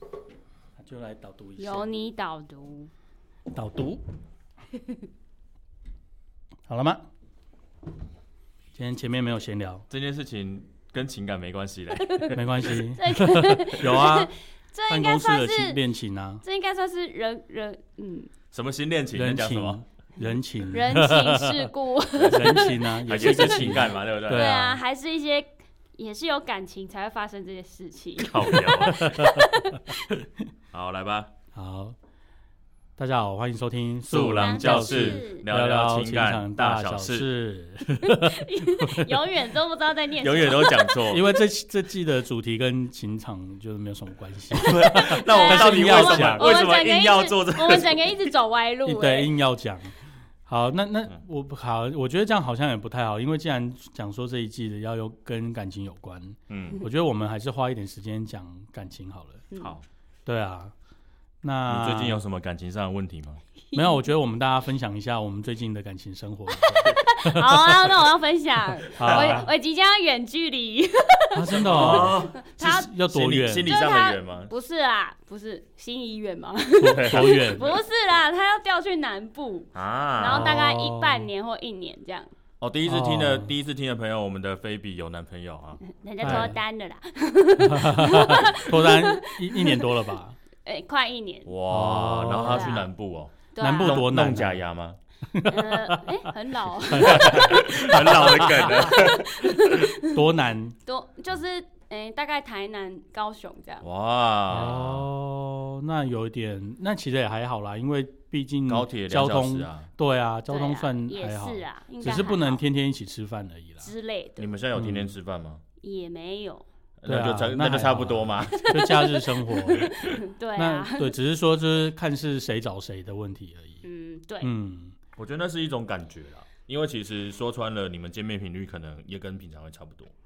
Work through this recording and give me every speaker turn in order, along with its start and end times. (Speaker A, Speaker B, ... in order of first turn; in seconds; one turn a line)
Speaker A: 0.8-1.9
Speaker B: 1.6-2.9
Speaker A: 3.5-4.0
Speaker A: 6.7-7.0
Speaker A: 8.7-9.8
Speaker C: 9.9-12.7
Speaker B: 12.1-12.3
Speaker A: 12.3-14.3
Speaker B: 12.9-15.8
Speaker A: 14.9-16.4
Speaker B: 16.4-18.3
Speaker C: 18.5-19.8
Speaker A: 19.1-21.7
Speaker B: 20.7-23.6
Speaker C: 22.2-24.5
Speaker A: 22.2-24.8
Speaker B: 24.3-30.0
Speaker C: 28.2-29.3
Speaker A: 28.9-29.4
Speaker C: 30.7-31.3
Speaker A: 31.5-31.9
Speaker A: 33.0-39.1
Speaker C: 34.1-37.3
Speaker B: 34.3-35.4
Speaker B: 38.0-41.1
Speaker C: 40.2-41.2
Speaker A: 41.1-46.5
Speaker C: 44.5-48.3
Speaker B: 45.0-49.3
Speaker A: 48.8-49.9
Speaker A: 50.5-59.5
Speaker C: 56.5-56.8
Speaker C: 59.6-59.8
Speaker A: 60.2-60.7
Speaker A: 61.4-62.2
Speaker C: 61.7-63.4
Speaker A: 63.7-67.9
Speaker B: 66.7-72.9
Speaker A: 68.9-69.5
Speaker C: 69.0-69.4
Speaker A: 71.3-73.7
Speaker C: 71.6-74.5
Speaker B: 73.7-82.3
Speaker A: 76.8-77.7
Speaker C: 76.9-77.7
Speaker C: 79.7-80.6
Speaker A: 80.2-81.3
Speaker C: 82.6-86.5
Speaker A: 82.9-83.5
Speaker B: 85.9-90.0
Speaker A: 86.2-86.6
Speaker A: 87.6-90.3
Speaker B: 90.6-91.5
Speaker C: 91.5-95.0
Speaker A: 91.7-92.8
Speaker B: 92.5-92.8
Speaker B: 93.5-94.1
Speaker A: 93.6-94.6
Speaker A: 95.3-96.0
Speaker B: 95.5-97.6
Speaker A: 96.9-99.1
Speaker C: 97.0-99.6
Speaker B: 98.2-100.1
Speaker A: 100.1-100.8
Speaker B: 100.8-103.8
Speaker C: 103.8-105.1
Speaker A: 104.5-113.9
Speaker C: 108.7-109.9
Speaker B: 110.5-112.6
Speaker B: 113.8-114.6
Speaker C: 114.4-115.6
Speaker A: 114.7-115.1
Speaker B: 115.8-116.6
Speaker C: 117.0-118.9
Speaker A: 117.0-119.9
Speaker B: 118.7-121.1
Speaker A: 120.6-123.8
Speaker B: 123.8-124.5
Speaker A: 124.4-125.0
Speaker C: 125.2-130.1